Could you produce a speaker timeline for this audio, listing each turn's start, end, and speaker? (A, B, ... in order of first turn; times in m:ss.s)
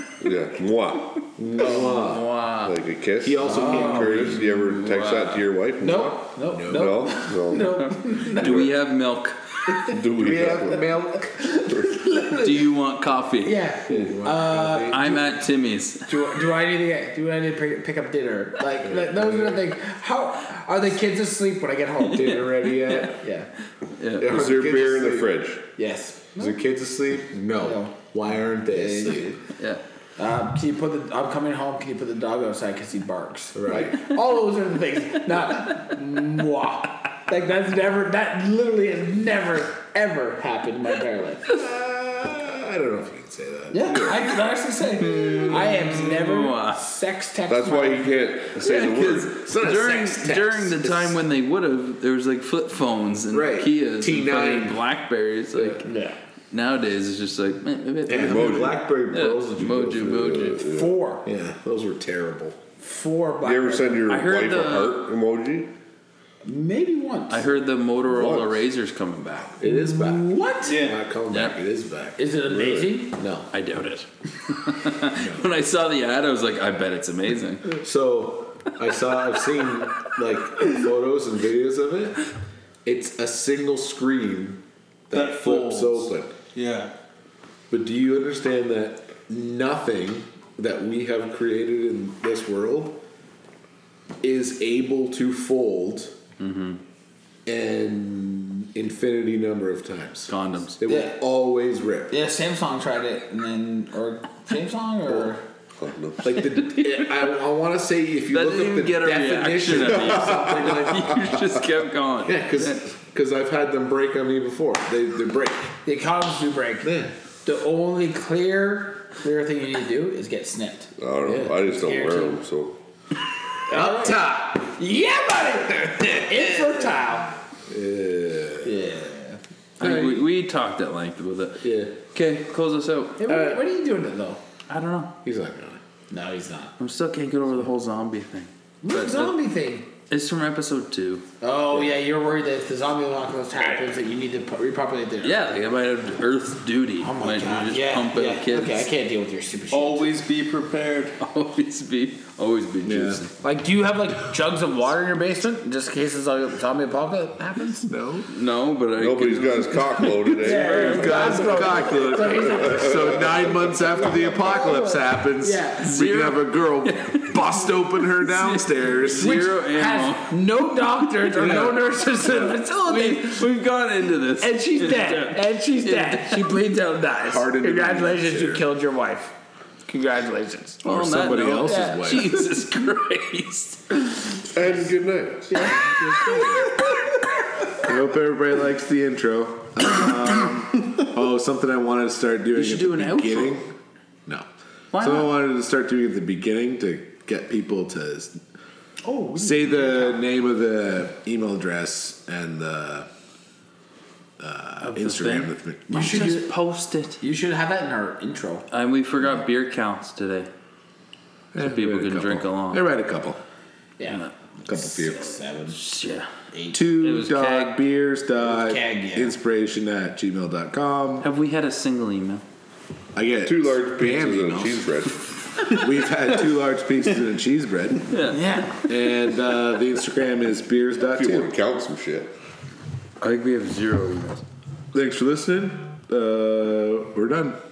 0:00.2-0:01.3 A
0:01.4-0:02.2 B
0:01.6-0:02.8 C
0:01.6-0:02.0 D
0:02.6-0:08.7 A
0:03.2-0:04.5 B
0:03.4-0:04.4 D
0:04.0-0:05.4 C
0:05.8-0:08.7 D
0:06.5-0:07.0 B
0:07.6-0:09.9 C
0:09.8-0:10.9 A
0:10.2-0:10.9 B
0:10.2-0:12.6 D
0:12.2-0:13.6 C
0:13.4-0:15.1 D
0:13.9-0:15.3 B
0:14.8-0:16.1 C
0:16.0-0:22.4 D
0:18.8-0:19.6 B
0:22.0-0:23.1 C
0:22.1-0:23.2 B
0:23.0-0:23.5 D
0:24.0-0:24.3 C
0:24.2-0:25.3 B
0:24.2-0:25.6 A
0:25.8-0:26.6 D
0:26.4-0:29.4 B
0:27.6-0:28.0 D
0:28.7-0:29.4 D
0:29.6-0:29.8 C
0:30.2-0:41.5 D
0:33.5-0:34.0 B
0:41.4-0:44.2 B
0:43.7-0:48.4 D
0:45.0-0:46.8 C
0:47.5-0:49.3 A
0:48.5-0:55.9 C
0:48.8-0:51.2 B
0:53.3-0:54.8 B
0:55.5-0:55.8 B
0:55.8-0:56.2 D
0:56.5-1:00.6 C
0:58.0-1:00.4 B
0:58.1-0:58.8 A
1:00.2-1:01.0 A
1:00.6-1:01.2 D
1:01.2-1:02.6 B
1:02.8-1:04.0 D
1:03.4-1:05.7 A
1:04.1-1:05.0 C
1:06.4-1:07.5 D
1:07.3-1:09.6 C
1:08.1-1:08.6 A
1:09.6-1:13.5 B
1:09.6-1:10.9 D
1:10.6-1:11.0 E
1:11.3-1:11.6 C
1:12.2-1:13.2 D
1:13.5-1:17.7 C
1:15.1-1:15.4 B
1:17.7-1:22.2 B
1:22.8-1:26.3 B
1:25.1-1:26.9 E
1:27.7-1:33.0 B
1:34.2-1:36.2 B
1:36.4-1:36.8 C
1:37.4-1:42.1 B
1:40.3-1:40.8 C
1:40.8-1:41.1 D
1:42.1-1:45.4 D
1:45.8-1:46.3 A
1:46.2-1:51.1 B
1:46.4-1:47.2 C
1:48.3-1:52.8 C
1:49.9-1:51.3 A
1:52.2-1:55.7 B
1:55.8-1:56.9 D
1:56.8-1:57.1 B
1:57.4-2:00.9 D
2:01.0-2:02.8 A
2:01.2-2:01.6 B
2:01.6-2:02.4 D
2:03.7-2:07.3 D
2:03.7-2:04.5 B
2:07.7-2:08.8 B
2:08.6-2:09.4 D
2:09.8-2:13.5 C
2:09.8-2:10.3 B
2:11.6-2:11.9 B
2:13.2-2:14.4 D
2:14.7-2:15.1 C
2:15.2-2:15.8 B
2:16.1-2:16.7 D
2:16.8-2:19.3 C
2:18.8-2:19.9 D
2:20.1-2:21.2 C
2:21.4-2:25.4 D
2:25.2-2:28.9 C
2:27.0-2:30.1 D
2:29.7-2:31.2 E
2:31.2-2:33.3 C
2:32.8-2:33.2 B
2:33.4-2:37.9 D
2:37.8-2:38.3 B
2:38.3-2:41.6 C
2:39.0-2:41.9 A
2:40.3-2:49.4 B
2:40.4-2:46.0 D
2:42.4-2:43.1 A
2:45.8-2:50.4 C
2:49.2-2:53.5 D
2:51.3-2:52.6 B
2:52.4-2:56.5 C
2:54.4-2:59.3 D
2:57.2-2:58.6 B
2:59.9-3:00.8 D
3:00.8-3:02.4 B
3:00.8-3:04.4 C
3:01.6-3:02.2 D
3:04.5-3:05.7 A
3:05.5-3:06.8 D
3:05.6-3:06.8 C
3:07.8-3:13.7 B
3:12.5-3:13.6 C
3:14.2-3:18.4 B
3:14.9-3:15.3 C
3:19.0-3:20.2 D
3:19.4-3:23.1 B
3:24.4-3:26.3 B
3:24.8-3:27.2 C
3:25.9-3:26.5 D
3:27.2-3:28.6 D
3:28.7-3:30.5 C
3:31.5-3:33.4 B
3:31.6-3:32.9 C
3:34.0-3:35.8 D
3:34.6-3:35.3 B
3:35.7-3:36.3 C
3:36.5-3:36.8 D
3:36.7-3:41.3 B
3:36.9-3:37.8 C
3:38.4-3:39.4 D
3:41.2-3:42.4 C
3:43.1-3:44.9 B
3:43.4-3:45.2 A
3:45.7-3:48.1 B
3:48.1-3:48.7 C
3:48.3-3:48.8 D
3:48.8-3:51.5 B
3:51.0-3:52.3 A
3:53.2-3:54.4 C
3:54.9-3:57.6 B